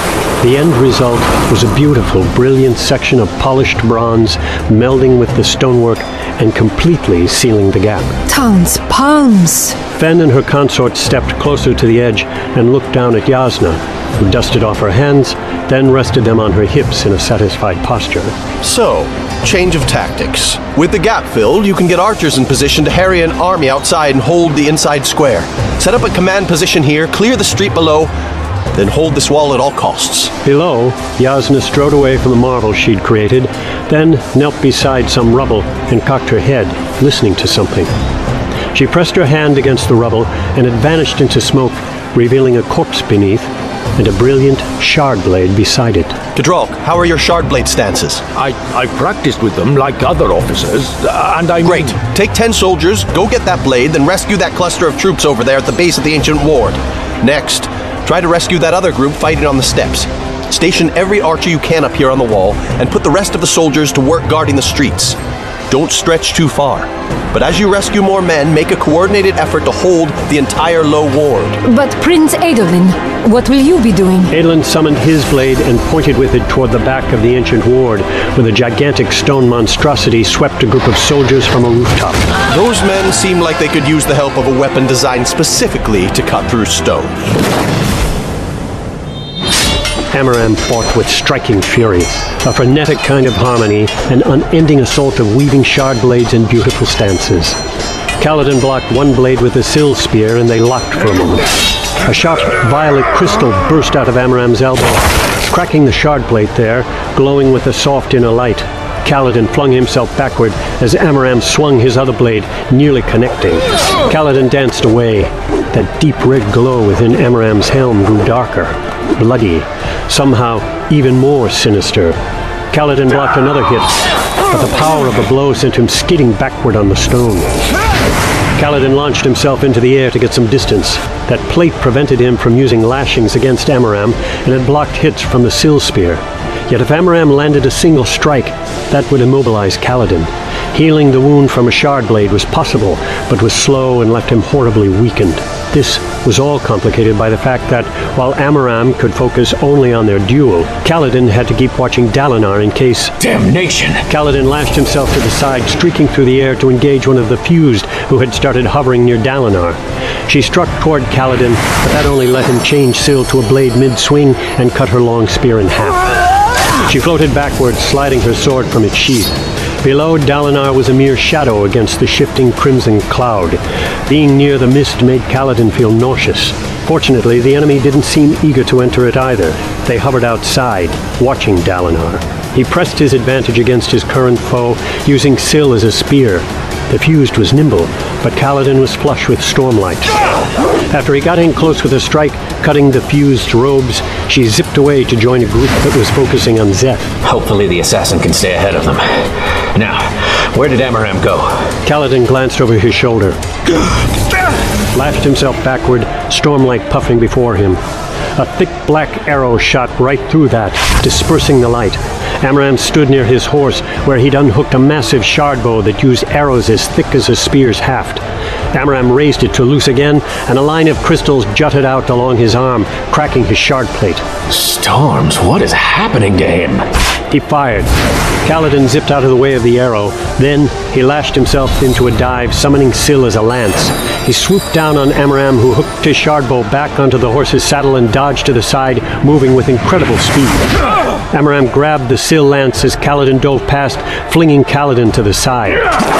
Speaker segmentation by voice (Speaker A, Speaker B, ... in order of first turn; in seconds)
Speaker A: 0.4-8.1, 9.9-18.3, 30.4-37.9, 38.7-46.2, 74.3-82.2, 90.1-97.6, 98.2-101.5, 102.0-122.2, 122.7-124.0, 124.5-127.5, 128.6-153.1, 154.1-166.0, 166.8-190.1, 190.9-197.1, 201.8-203.4, 204.9-207.8, 208.4-224.2, 227.3-227.9, 228.4-240.7, 241.3-245.8
Speaker B: 8.3-9.8, 71.6-74.3
Speaker C: 18.6-28.1, 28.7-30.3, 46.3-48.2, 51.6-65.2, 65.7-71.6, 82.5-87.1
Speaker D: 48.4-51.9
Speaker E: 153.2-153.9, 197.2-199.0, 200.5-201.4, 224.5-226.8